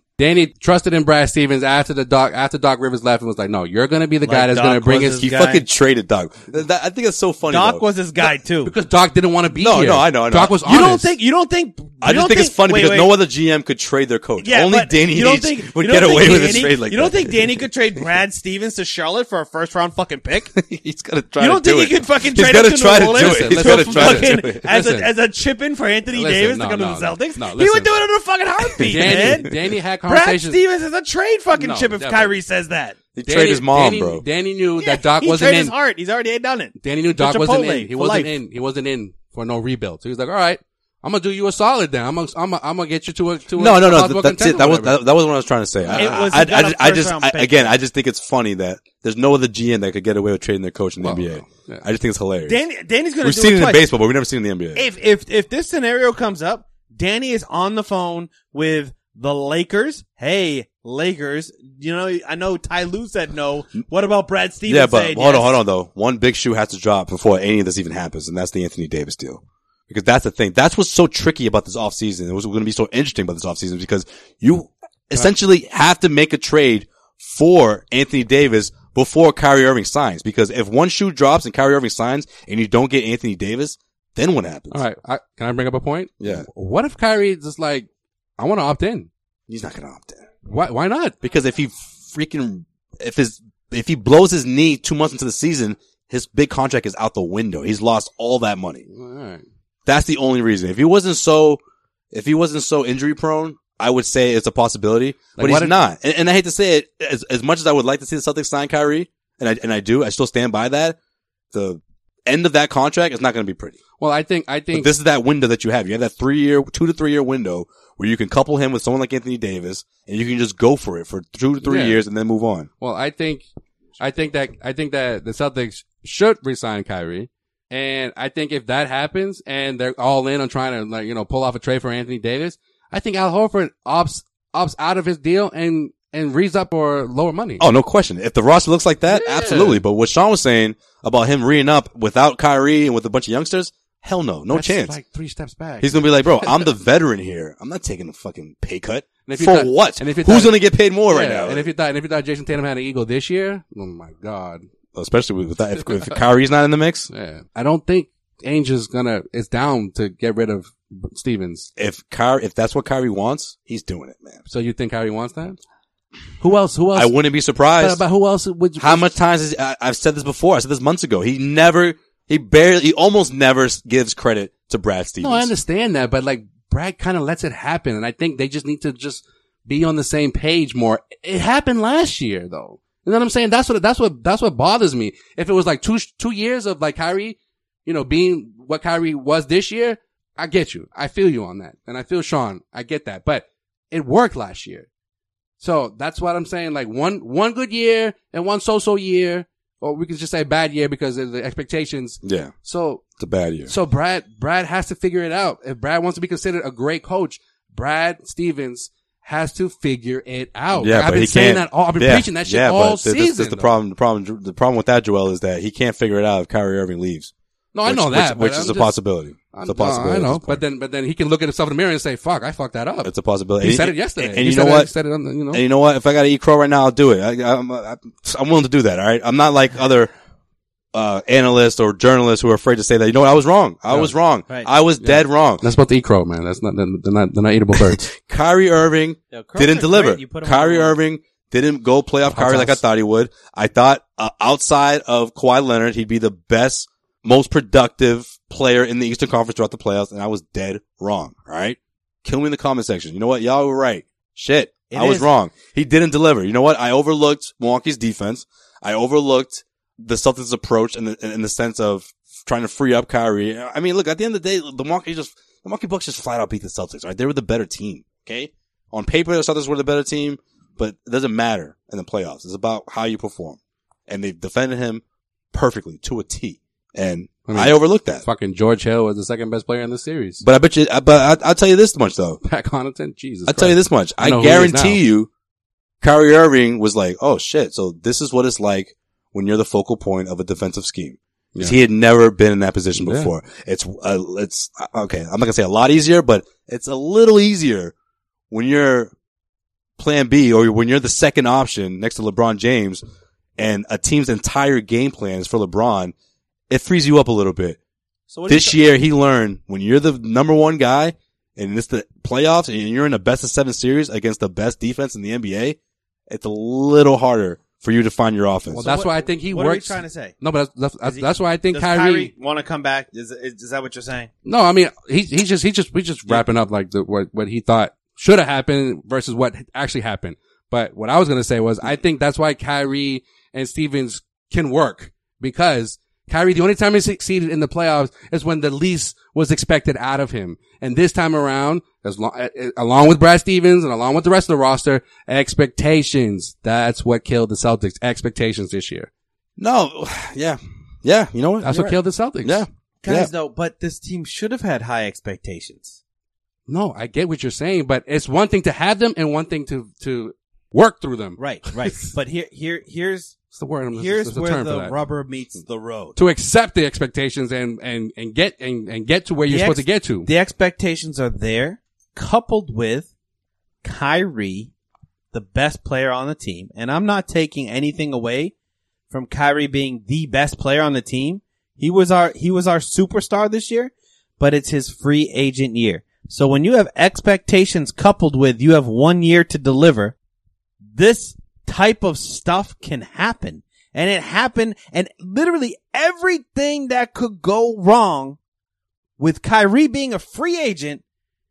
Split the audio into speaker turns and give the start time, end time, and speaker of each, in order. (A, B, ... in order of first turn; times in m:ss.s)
0:00.2-0:05.3 A
0:04.2-0:05.6 B
0:05.2-0:07.9 C
0:07.5-0:08.7 B
0:08.6-0:11.1 A
0:09.6-0:10.7 C
0:10.6-0:13.1 B
0:12.0-0:17.7 C
0:14.4-0:20.5 B
0:20.6-0:24.6 C
0:21.4-0:29.5 B
0:23.2-0:25.1 A
0:26.1-0:28.0 A
0:28.8-0:30.6 A
0:28.8-0:29.4 C
0:30.1-0:33.0 B
0:31.6-0:32.3 A
0:33.2-0:34.2 C
0:33.3-0:35.7 A
0:34.8-0:38.3 B
0:36.8-0:45.0 A
0:43.6-0:52.6 C
0:45.8-0:46.3 A
0:45.9-0:47.7 B
0:51.0-0:51.8 A
0:52.5-0:53.8 B
0:53.2-0:54.9 C
0:54.8-1:05.6 B
1:04.7-1:24.8 C
1:24.7-1:27.9 A
1:26.2-1:26.5 C
1:28.4-1:29.1 A
1:29.5-1:30.3 C
1:30.5-1:31.2 A
1:31.2-1:38.8 C
1:38.9-1:39.4 A
1:39.9-1:41.6 C
1:42.1-1:51.0 C
1:45.4-1:45.8 A
1:51.5-1:53.8 C
1:54.0-1:54.9 A
1:54.7-2:02.7 C
2:01.6-2:02.0 A
2:02.8-2:03.4 A
2:04.0-2:17.6 A
2:17.6-2:25.0 C
2:19.1-2:19.8 A
2:24.5-2:26.7 A
2:25.8-2:31.7 C
2:29.3-2:30.6 A
2:31.1-2:34.7 A
2:34.9-2:37.1 C
2:37.1-2:41.7 A
2:41.8-2:44.4 C
2:44.5-2:45.6 A
2:46.4-2:47.2 A
2:46.9-2:48.0 C
2:47.8-2:49.1 A
2:48.8-2:55.5 C
2:55.2-3:14.9 A
3:15.6-3:23.1 A
3:22.2-3:22.5 C
3:23.2-3:23.7 C
3:23.7-3:33.7 A
3:30.8-3:37.3 C
3:37.8-3:39.0 A
3:37.9-3:40.6 C
3:39.5-3:45.6 A
3:43.0-3:44.9 C
3:45.5-3:50.1 C
3:50.9-3:55.6 C
3:55.0-3:58.0 A
3:57.8-4:35.0 C
3:59.3-4:01.0 B
4:02.3-4:02.8 A
4:14.9-4:15.3 B
4:35.5-4:38.2 C
4:37.5-4:40.4 A
4:40.4-4:42.4 C
4:42.4-4:45.0 A
4:43.5-4:45.3 C
4:46.0-4:57.9 C
4:53.0-4:53.3 A
4:58.5-4:59.1 C
5:00.0-5:03.0 C
5:03.6-5:06.1 C
5:06.7-5:07.8 C
5:08.4-5:08.8 B
5:08.5-5:15.8 C
5:16.3-5:18.9 C
5:18.7-5:22.3 A
5:18.8-5:20.4 B
5:21.0-5:24.3 B
5:24.5-5:49.1 A
5:49.6-5:53.3 C
5:51.6-5:52.6 A
5:53.0-5:56.0 B
5:56.7-6:02.1 A
6:01.4-6:03.4 B
6:03.5-6:05.0 A
6:04.0-6:05.6 B
6:05.6-6:06.2 C
6:06.2-6:10.3 A
6:09.5-6:13.1 B
6:13.8-6:14.7 B
6:15.3-6:18.5 B
6:19.1-6:30.2 B
6:30.9-6:38.4 B
6:39.2-6:41.0 B